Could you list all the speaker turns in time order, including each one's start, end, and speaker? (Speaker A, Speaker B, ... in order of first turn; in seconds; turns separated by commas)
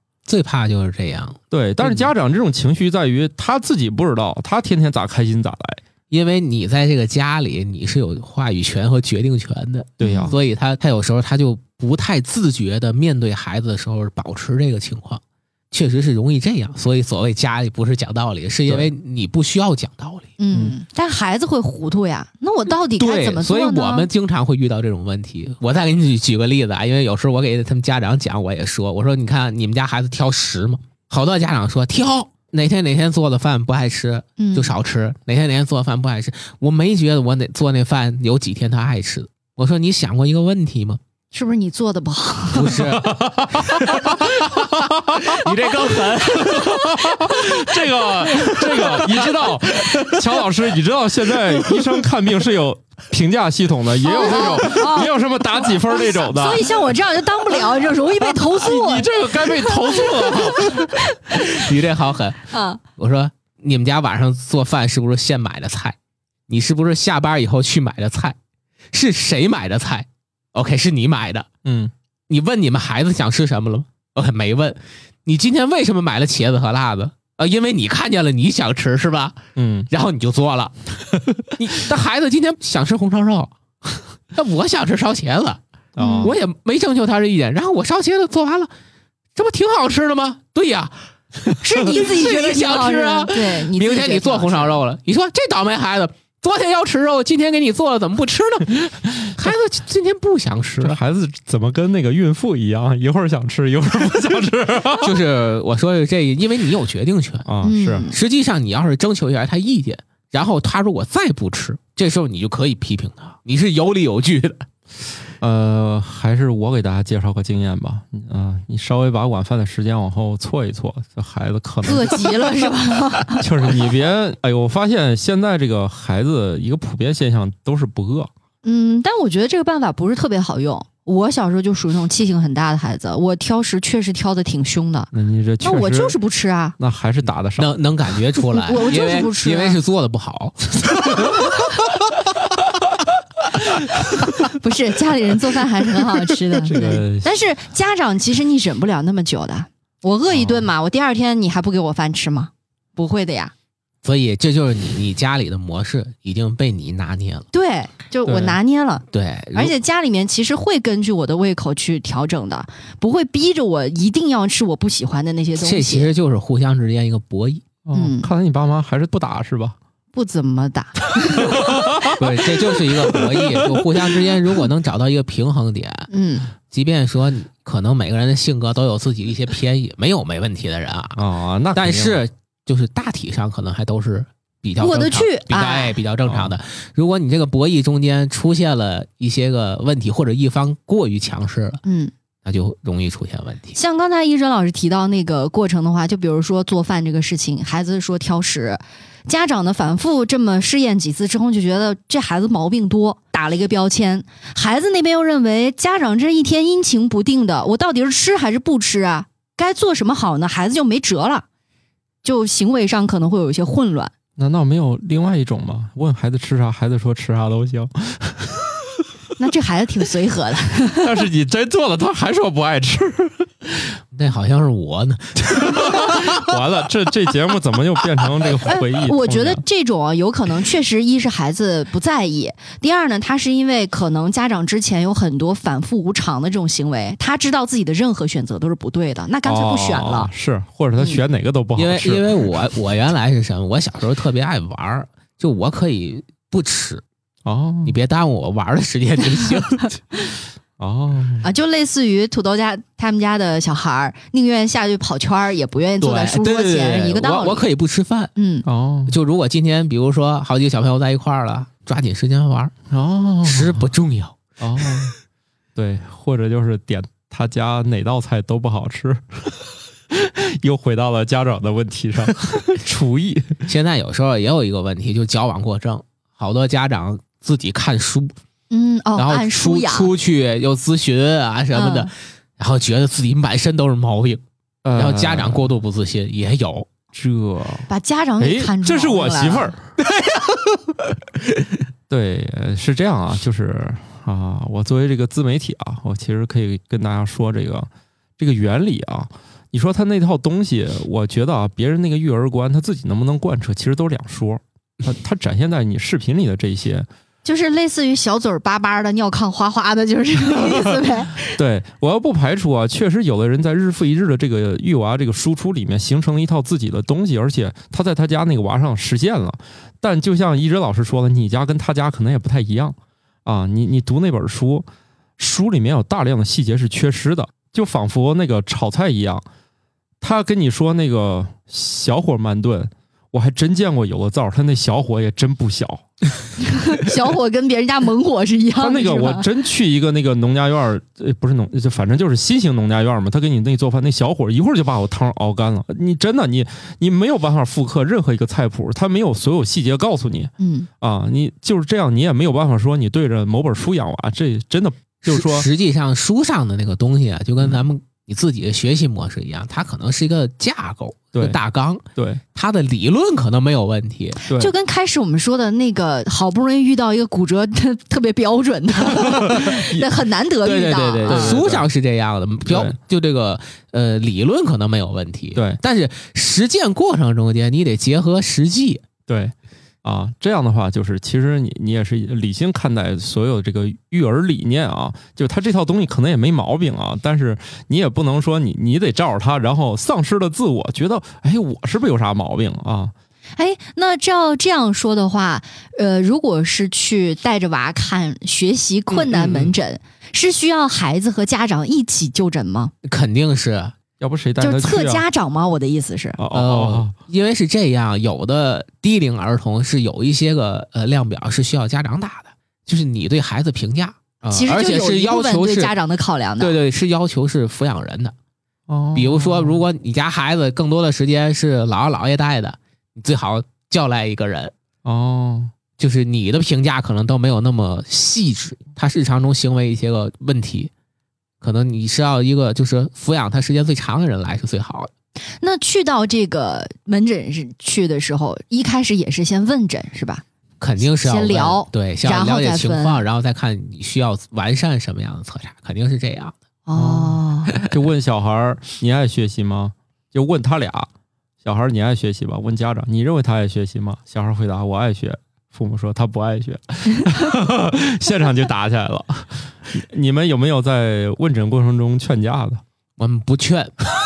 Speaker A: 0.2-2.1, Speaker B: 1.5-5.8, Speaker A: 6.1-20.3, Speaker B: 10.0-10.4, Speaker C: 10.0-10.4, Speaker C: 20.4-24.1, Speaker A: 23.0-41.0, Speaker C: 34.4-34.8, Speaker C: 41.3-42.9, Speaker A: 42.5-43.1, Speaker B: 42.8-56.8, Speaker A: 43.8-44.3, Speaker A: 45.2-50.4, Speaker C: 54.0-60.8, Speaker B: 58.4-60.9, Speaker A: 61.3-66.0, Speaker C: 62.5-62.8, Speaker A: 66.5-68.4, Speaker A: 68.9-71.5, Speaker B: 71.6-71.9, Speaker A: 72.3-79.4, Speaker B: 79.5-79.9, Speaker A: 79.9-85.6, Speaker B: 86.0-86.4, Speaker C: 86.0-86.4, Speaker A: 86.2-88.7, Speaker A: 89.3-101.0, Speaker C: 91.6-94.8, Speaker B: 100.8-105.2, Speaker A: 105.0-107.5, Speaker B: 107.5-108.1, Speaker C: 107.6-108.2, Speaker A: 108.1-114.7, Speaker B: 115.4-122.4, Speaker C: 121.8-123.5, Speaker B: 123.3-128.3, Speaker C: 128.6-135.1, Speaker B: 135.1-136.2, Speaker C: 135.6-136.8, Speaker B: 136.8-137.8, Speaker A: 137.6-141.4, Speaker C: 138.6-139.8, Speaker C: 144.6-153.5, Speaker B: 146.7-147.3, Speaker B: 150.3-150.7, Speaker A: 154.0-157.5, Speaker C: 157.5-166.1, Speaker B: 158.2-158.6, Speaker A: 159.1-159.7, Speaker A: 165.6-167.7, Speaker B: 167.8-169.8, Speaker C: 167.9-168.3, Speaker C: 170.1-171.6, Speaker B: 171.4-172.2, Speaker A: 172.1-176.1, Speaker C: 176.1-176.5, Speaker A: 176.6-181.2, Speaker B: 181.2-182.2, Speaker A: 181.7-191.8, Speaker C: 184.8-186.0, Speaker B: 186.2-186.5, Speaker C: 191.8-192.1, Speaker A: 192.4-193.8, Speaker C: 193.7-211.4, Speaker C: 212.2-214.1, Speaker B: 214.4-218.7, Speaker C: 219.4-221.2, Speaker B: 220.9-223.5, Speaker A: 224.1-226.5, Speaker B: 225.5-229.6, Speaker C: 228.6-240.3, Speaker B: 239.4-242.6, Speaker A: 241.8-247.0, Speaker B: 247.4-248.0, Speaker A: 247.8-250.0, Speaker B: 250.8-251.5, Speaker C: 251.4-257.7, Speaker A: 256.0-258.3, Speaker C: 258.4-258.6, Speaker B: 258.6-259.2, Speaker A: 259.1-262.7, Speaker B: 262.9-263.9, Speaker A: 263.4-264.4, Speaker B: 264.6-265.1, Speaker B: 265.8-269.6, Speaker B: 270.1-273.6, Speaker A: 273.7-278.3, Speaker C: 278.7-280.1, Speaker A: 279.1-284.4, Speaker C: 281.7-282.1, Speaker B: 284.8-285.7, Speaker A: 284.9-286.9, Speaker B: 287.1-289.8, Speaker C: 287.9-289.7, Speaker A: 290.0-290.9, Speaker B: 292.1-307.1, Speaker C: 307.4-311.4, Speaker B: 311.4-324.9, Speaker B: 325.4-329.4, Speaker B: 330.2-336.1, Speaker C: 336.9-339.4, Speaker B: 338.8-355.7, Speaker C: 350.6-350.9, Speaker A: 355.3-364.4, Speaker B: 357.6-357.8, Speaker B: 361.3-361.6, Speaker B: 362.1-362.4, Speaker B: 364.4-364.7, Speaker C: 364.5-371.6, Speaker B: 369.1-371.9, Speaker A: 370.6-379.0, Speaker B: 372.7-373.0, Speaker B: 375.6-375.8, Speaker B: 379.3-393.1, Speaker C: 393.6-402.9, Speaker B: 399.1-399.7, Speaker A: 403.0-403.9, Speaker B: 404.2-405.2, Speaker C: 404.6-406.4, Speaker B: 406.4-407.1, Speaker A: 406.5-415.9, Speaker C: 414.5-416.8, Speaker A: 416.6-418.3, Speaker B: 418.9-419.8, Speaker A: 419.1-424.7, Speaker B: 425.1-425.7, Speaker A: 426.0-430.9, Speaker A: 431.6-435.1, Speaker C: 435.6-440.4, Speaker A: 440.8-446.5, Speaker C: 441.0-443.2, Speaker C: 446.9-447.7, Speaker B: 446.9-451.1, Speaker B: 451.6-462.8, Speaker A: 463.2-464.0